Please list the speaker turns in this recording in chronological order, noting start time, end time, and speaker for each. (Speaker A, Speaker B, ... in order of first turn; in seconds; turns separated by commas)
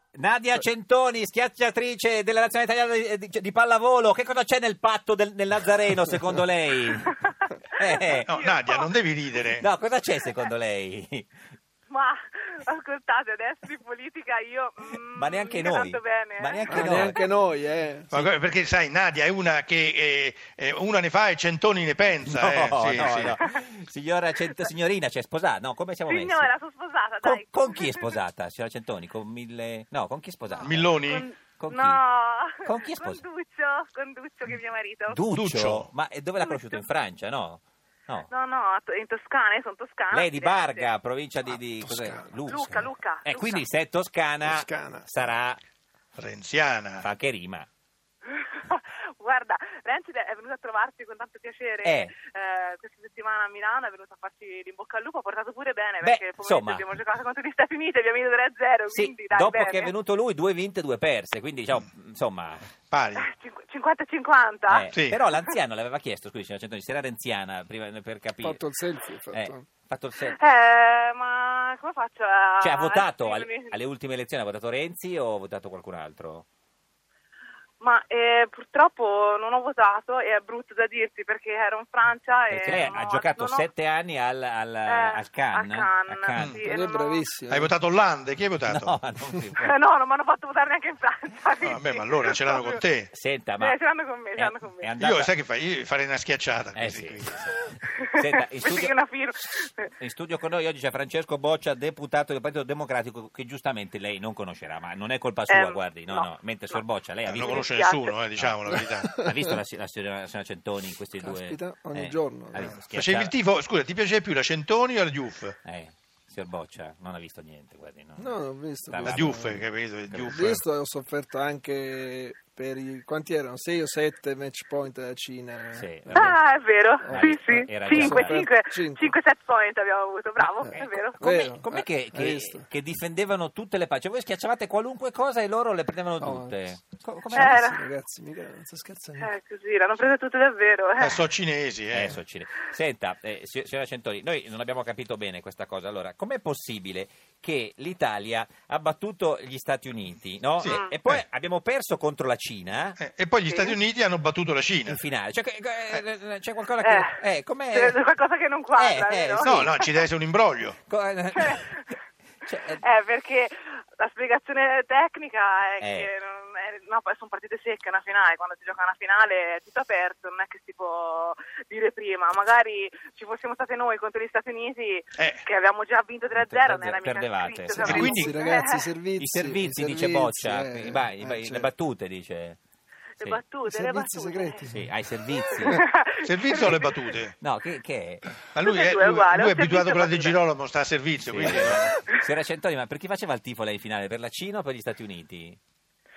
Speaker A: 0.1-7.2, Speaker B: 7.0-7.4, Speaker A: 7.8-8.3, Speaker B: 8.0-8.9, Speaker C: 8.2-9.7, Speaker A: 9.6-11.3, Speaker B: 11.9-17.3, Speaker A: 15.1-17.2, Speaker D: 16.7-18.1, Speaker C: 18.1-23.4, Speaker A: 22.2-26.5, Speaker B: 26.1-28.2, Speaker A: 27.2-32.0, Speaker B: 30.5-35.2, Speaker C: 30.6-31.3, Speaker A: 32.6-33.2, Speaker A: 35.1-38.3, Speaker C: 35.3-35.9, Speaker B: 36.4-36.8, Speaker B: 38.3-40.9, Speaker A: 40.1-45.6, Speaker D: 41.5-42.4, Speaker B: 42.5-43.6, Speaker D: 44.4-45.1, Speaker C: 46.1-47.1, Speaker A: 47.0-47.7, Speaker B: 48.3-59.9, Speaker A: 51.8-52.1, Speaker A: 56.0-57.0, Speaker A: 58.9-62.7, Speaker C: 62.9-63.3, Speaker B: 63.2-64.9, Speaker A: 64.7-68.6, Speaker C: 64.9-65.2, Speaker D: 68.4-69.6, Speaker A: 69.3-70.4, Speaker B: 70.3-73.7, Speaker A: 72.6-76.4, Speaker B: 77.8-83.7, Speaker A: 82.5-86.6, Speaker B: 84.9-87.2, Speaker C: 86.3-86.6, Speaker D: 86.6-87.7, Speaker C: 87.5-88.9, Speaker A: 88.7-89.7, Speaker B: 89.6-92.8, Speaker C: 91.6-93.1, Speaker A: 93.1-93.8, Speaker B: 93.6-94.9, Speaker A: 94.3-95.3, Speaker C: 95.0-97.3, Speaker A: 96.7-99.0, Speaker B: 98.6-99.9, Speaker A: 99.9-107.7, Speaker B: 105.5-106.8, Speaker C: 107.3-109.2, Speaker B: 107.3-108.1, Speaker A: 108.3-113.3, Speaker D: 108.9-109.4, Speaker D: 111.2-112.7, Speaker C: 112.6-115.5, Speaker A: 115.6-118.3, Speaker D: 118.2-119.6, Speaker A: 118.9-119.4, Speaker C: 119.0-120.6, Speaker A: 120.1-120.5, Speaker D: 120.3-126.4, Speaker A: 125.7-126.4, Speaker B: 126.1-131.2, Speaker D: 127.0-129.2, Speaker A: 127.1-128.5, Speaker D: 130.4-132.7, Speaker A: 130.7-137.6, Speaker D: 136.2-136.5, Speaker D: 137.3-139.3, Speaker B: 137.3-137.9, Speaker B: 139.2-141.2, Speaker C: 141.0-142.2, Speaker A: 141.9-153.0, Speaker C: 150.6-151.2, Speaker B: 150.7-150.9, Speaker C: 153.0-155.0, Speaker B: 153.4-153.8, Speaker A: 154.9-158.0, Speaker B: 156.8-157.2, Speaker B: 157.7-159.9, Speaker A: 158.8-159.7, Speaker C: 159.4-160.8, Speaker A: 160.9-161.8, Speaker B: 161.3-161.8, Speaker A: 162.4-162.8, Speaker B: 162.8-178.9, Speaker A: 165.8-166.1, Speaker C: 175.2-175.4, Speaker A: 176.3-178.3, Speaker D: 177.8-181.7, Speaker A: 179.2-182.6, Speaker B: 183.2-184.6, Speaker D: 183.6-184.9, Speaker A: 184.7-185.8, Speaker B: 185.5-187.1, Speaker C: 186.2-187.3, Speaker A: 187.4-188.3, Speaker C: 188.5-191.9, Speaker B: 188.6-190.4, Speaker A: 191.2-195.6